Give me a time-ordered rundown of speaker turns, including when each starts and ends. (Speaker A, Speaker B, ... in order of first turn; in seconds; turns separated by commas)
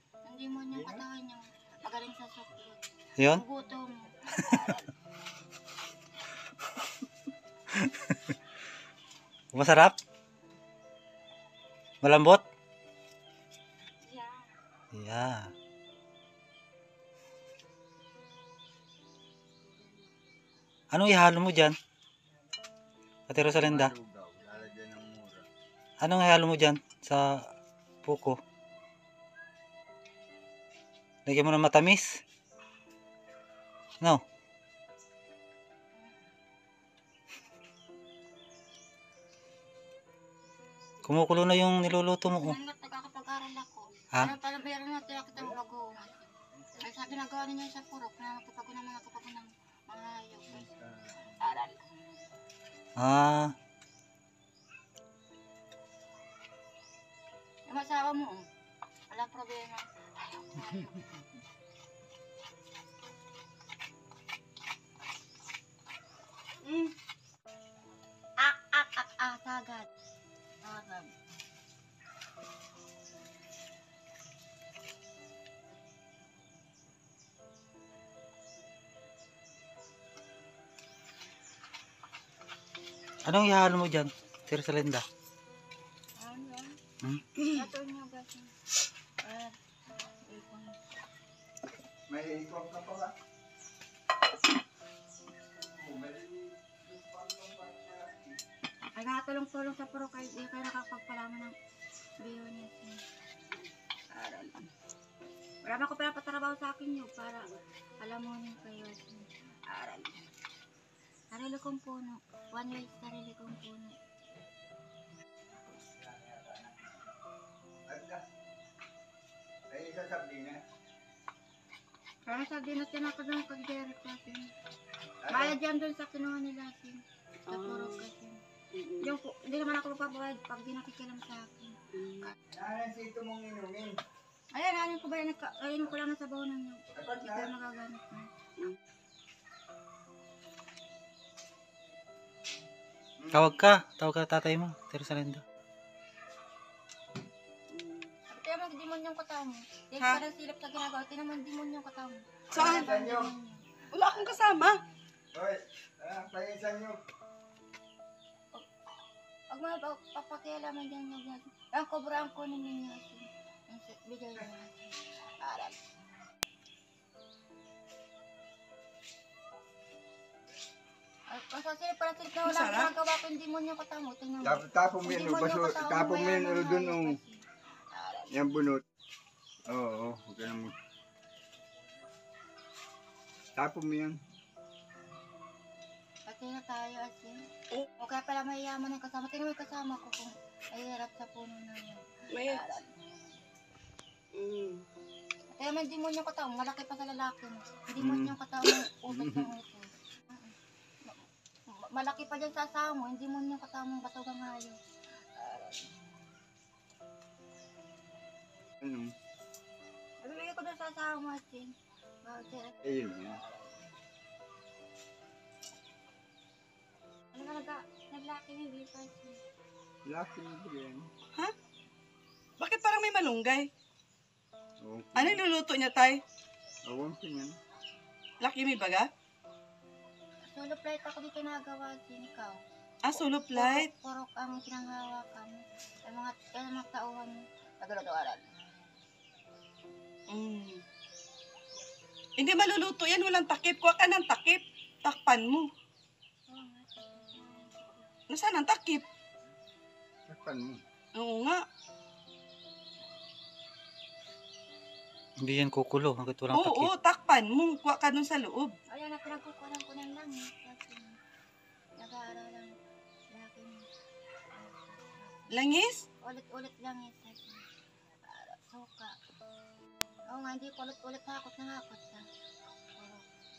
Speaker A: 0.2-4.9, Speaker B: 0.7-1.0, Speaker C: 3.2-3.4, Speaker C: 7.7-8.3, Speaker C: 9.5-10.0, Speaker C: 12.0-12.4, Speaker A: 14.0-14.6, Speaker C: 14.9-15.5, Speaker C: 20.9-21.8, Speaker C: 23.3-23.9, Speaker B: 23.4-25.5, Speaker C: 26.0-27.4, Speaker C: 28.0-28.4, Speaker C: 31.3-32.2, Speaker C: 41.0-42.6, Speaker A: 42.3-50.7, Speaker B: 50.5-51.3, Speaker A: 51.3-51.9, Speaker C: 53.0-53.5, Speaker A: 57.7-58.5, Speaker A: 59.1-61.0, Speaker D: 66.6-66.9, Speaker A: 68.4-69.9, Speaker A: 70.6-71.1, Speaker C: 83.2-85.0, Speaker A: 86.2-86.7, Speaker A: 87.5-88.5, Speaker A: 89.2-90.8, Speaker B: 92.1-93.1, Speaker B: 95.6-98.4, Speaker A: 99.0-101.5, Speaker A: 102.2-103.0, Speaker A: 104.1-104.7, Speaker A: 105.6-110.2, Speaker A: 111.3-114.0, Speaker B: 115.8-116.9, Speaker B: 117.9-118.2, Speaker B: 119.7-120.6, Speaker A: 122.3-124.5, Speaker B: 125.2-125.6, Speaker A: 125.3-128.4, Speaker D: 127.5-128.0, Speaker D: 128.7-129.1, Speaker A: 129.0-131.8, Speaker D: 131.9-132.3, Speaker B: 132.5-134.0, Speaker A: 134.5-138.3, Speaker B: 136.9-137.5, Speaker B: 143.2-143.5, Speaker C: 143.3-145.4, Speaker D: 147.7-148.1, Speaker A: 148.3-154.6, Speaker D: 152.5-152.9, Speaker B: 152.5-153.3, Speaker D: 153.9-154.8, Speaker B: 155.3-157.0, Speaker A: 159.5-165.8, Speaker A: 171.3-177.4, Speaker D: 172.4-172.9, Speaker B: 174.4-177.2, Speaker A: 178.0-178.3, Speaker B: 178.3-178.8, Speaker B: 179.7-180.7, Speaker B: 183.6-184.2, Speaker A: 186.3-187.4, Speaker A: 188.0-193.4, Speaker D: 192.3-192.6, Speaker D: 194.3-194.8, Speaker A: 195.6-204.8, Speaker B: 198.0-198.3, Speaker B: 199.1-199.5, Speaker A: 205.4-205.9, Speaker B: 208.8-209.1, Speaker A: 210.2-211.7, Speaker A: 212.2-212.8, Speaker B: 212.8-213.4, Speaker A: 213.4-213.7, Speaker A: 217.3-219.4, Speaker B: 220.1-221.1, Speaker D: 222.6-223.7, Speaker B: 224.8-225.4, Speaker D: 225.2-226.2, Speaker B: 226.8-227.6, Speaker D: 228.4-229.1, Speaker A: 230.5-232.6, Speaker D: 233.0-233.9, Speaker A: 233.5-238.8, Speaker D: 240.3-240.8, Speaker D: 242.4-245.7, Speaker A: 246.5-248.1, Speaker D: 248.3-249.1, Speaker B: 250.3-250.8, Speaker D: 251.1-251.6, Speaker C: 255.4-256.9, Speaker D: 256.5-258.8, Speaker A: 258.9-261.2, Speaker A: 262.0-262.7, Speaker A: 263.3-263.9, Speaker A: 264.5-265.5, Speaker D: 265.5-266.0, Speaker A: 266.2-267.6, Speaker A: 268.2-269.2, Speaker A: 270.3-272.2, Speaker A: 273.0-273.2